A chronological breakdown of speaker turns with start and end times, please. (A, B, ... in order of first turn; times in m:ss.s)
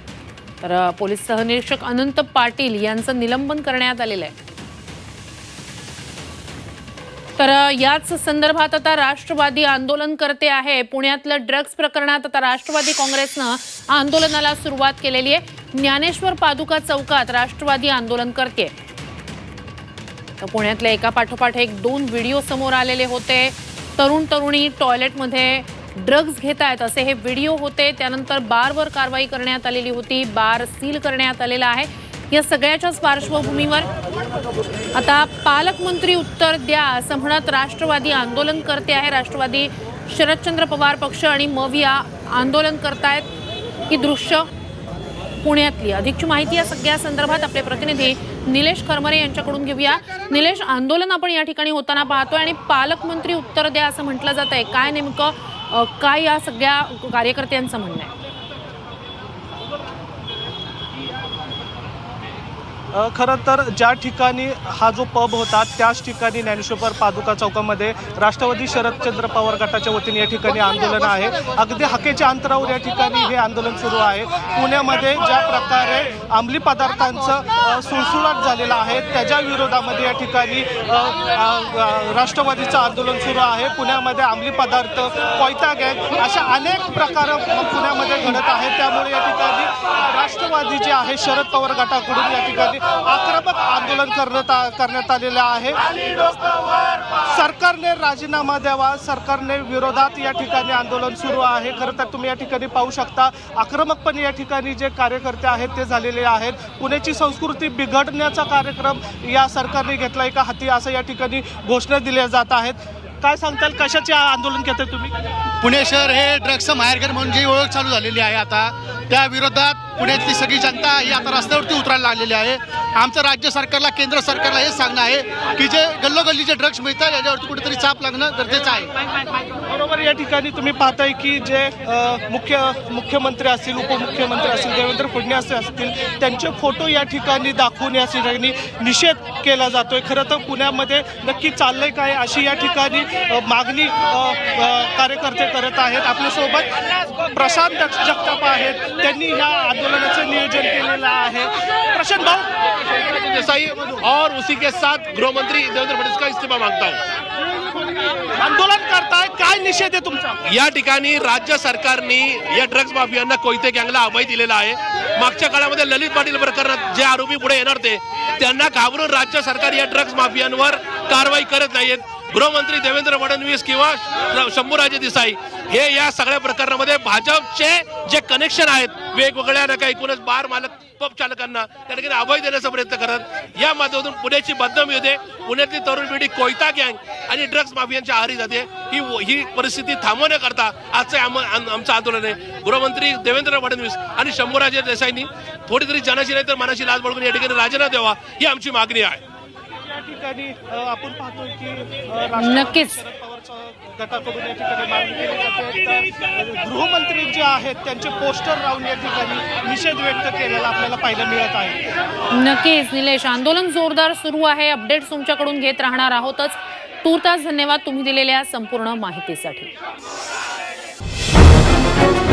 0:00.6-0:04.3 A
0:07.4-0:18.7 A
0:20.4-0:33.9 A
0:34.9-0:43.3 A
0:43.9-0:44.5 A
0:45.4-0:58.1 A
1:02.9-1:35.8 B
1:37.1-1:55.1 B
1:55.6-2:08.9 C
2:09.7-2:26.7 B
2:27.3-2:32.5 B
2:33.0-2:37.0 D
2:33.8-2:34.0 B
2:38.3-2:40.4 B
2:40.4-3:19.2 D
3:19.9-3:31.8 B
3:22.4-3:23.0 A
3:32.3-3:39.7 A